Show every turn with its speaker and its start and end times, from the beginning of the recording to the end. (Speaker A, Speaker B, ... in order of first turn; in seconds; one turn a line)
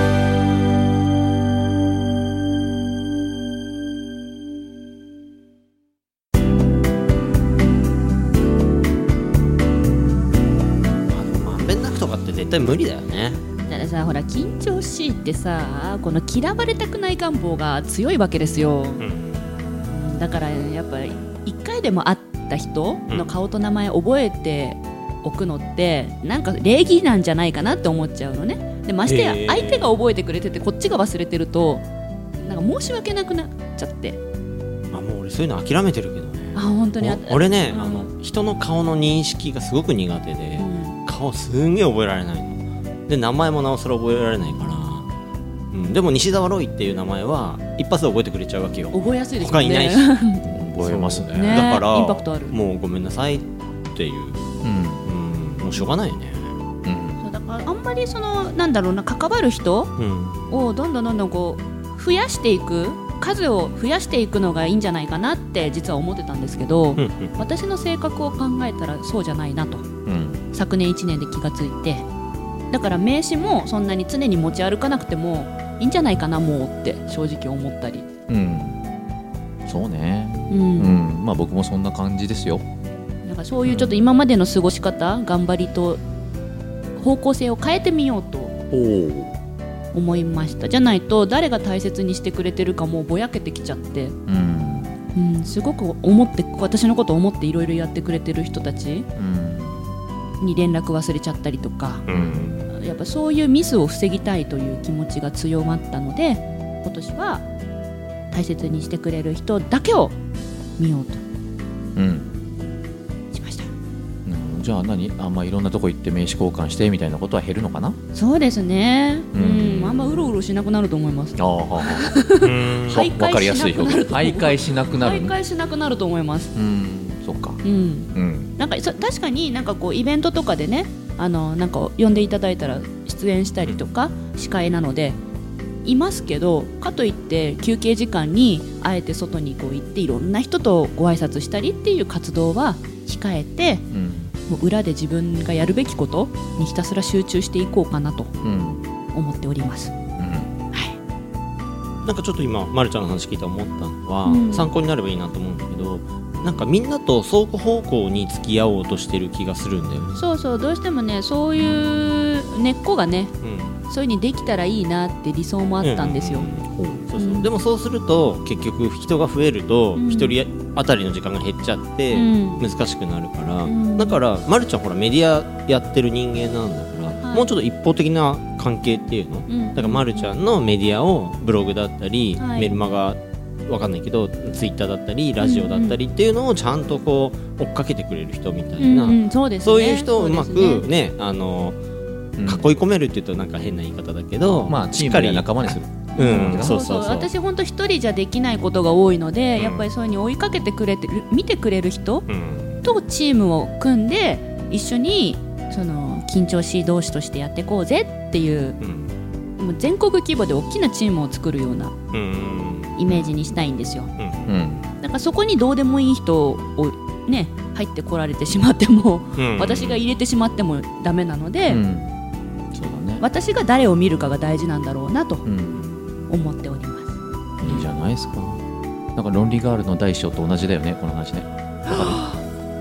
Speaker A: 11.1-13.4
Speaker B: 13.7-19.0
Speaker A: 19.0-19.6
Speaker B: 19.9-31.9
Speaker A: 29.1-29.9
Speaker B: 32.4-34.2
Speaker A: 34.9-45.1
Speaker B: 36.5-38.1
Speaker B: 40.6-41.0
Speaker A: 45.7-50.1
Speaker B: 48.9-50.4
Speaker C: 50.4-51.6
Speaker A: 50.8-54.5
Speaker B: 51.3-52.6
Speaker C: 54.6-55.1
Speaker A: 55.0-56.6
Speaker C: 56.9-57.2
Speaker B: 57.2-59.9
Speaker A: 60.0-60.5
Speaker B: 60.5-69.9
Speaker A: 67.0-67.4
Speaker C: 70.1-70.4
Speaker B: 70.5-72.1
Speaker B: 72.7-78.1
Speaker C: 78.3-78.8
Speaker C: 79.7-82.6
Speaker B: 80.5-81.0
Speaker B: 83.2-86.0
Speaker C: 83.7-84.0
Speaker B: 87.0-88.6
Speaker C: 88.7-89.3
Speaker B: 89.9-94.1
Speaker C: 94.3-95.0
Speaker B: 95.1-99.1
Speaker C: 99.2-99.9
Speaker B: 100.4-102.1
Speaker A: 102.1-102.7
Speaker C: 102.1-102.5
Speaker B: 102.7-107.5
Speaker B: 108.3-110.2
Speaker B: 110.8-111.2
Speaker C: 112.0-112.3
Speaker B: 113.3-113.7
Speaker C: 114.2-118.0
Speaker B: 118.1-126.5
Speaker C: 119.3-120.3
Speaker C: 121.4-122.1
Speaker A: 122.4-123.1
Speaker C: 122.9-125.3
Speaker C: 126.5-127.6
Speaker B: 127.6-135.2
Speaker C: 128.1-128.6
Speaker B: 135.8-143.8
Speaker C: 143.9-144.3
Speaker B: 144.5-148.3
Speaker C: 148.4-148.8
Speaker B: 149.1-149.9
Speaker C: 150.2-150.5
Speaker A: 152.0-160.2
Speaker B: 154.2-154.7
Speaker B: 160.2-163.3
Speaker A: 163.4-163.8
Speaker B: 163.9-166.5
Speaker A: 165.8-191.8
Speaker B: 167.2-167.5
Speaker B: 169.9-170.4
Speaker B: 172.1-172.7
Speaker B: 173.6-174.2
Speaker B: 177.2-177.5
Speaker B: 179.5-180.3
Speaker B: 182.4-182.8
Speaker B: 185.4-186.0
Speaker B: 188.8-190.9
Speaker C: 192.4-192.7
Speaker A: 192.4-197.3
Speaker C: 194.7-197.2
Speaker B: 196.2-202.3
Speaker A: 199.6-199.9
Speaker A: 202.3-202.8
Speaker B: 202.8-208.8
Speaker A: 208.8-209.1
Speaker B: 209.6-211.9
Speaker A: 212.1-213.0
Speaker B: 212.9-214.1
Speaker A: 214.2-214.6
Speaker C: 214.5-214.9
Speaker B: 215.0-221.8
Speaker A: 219.4-220.0
Speaker C: 221.7-222.2
Speaker C: 222.7-223.2
Speaker B: 223.2-225.4
Speaker C: 225.4-225.9
Speaker B: 226.3-227.2
Speaker C: 227.6-228.6
Speaker C: 229.2-232.2
Speaker B: 231.9-232.4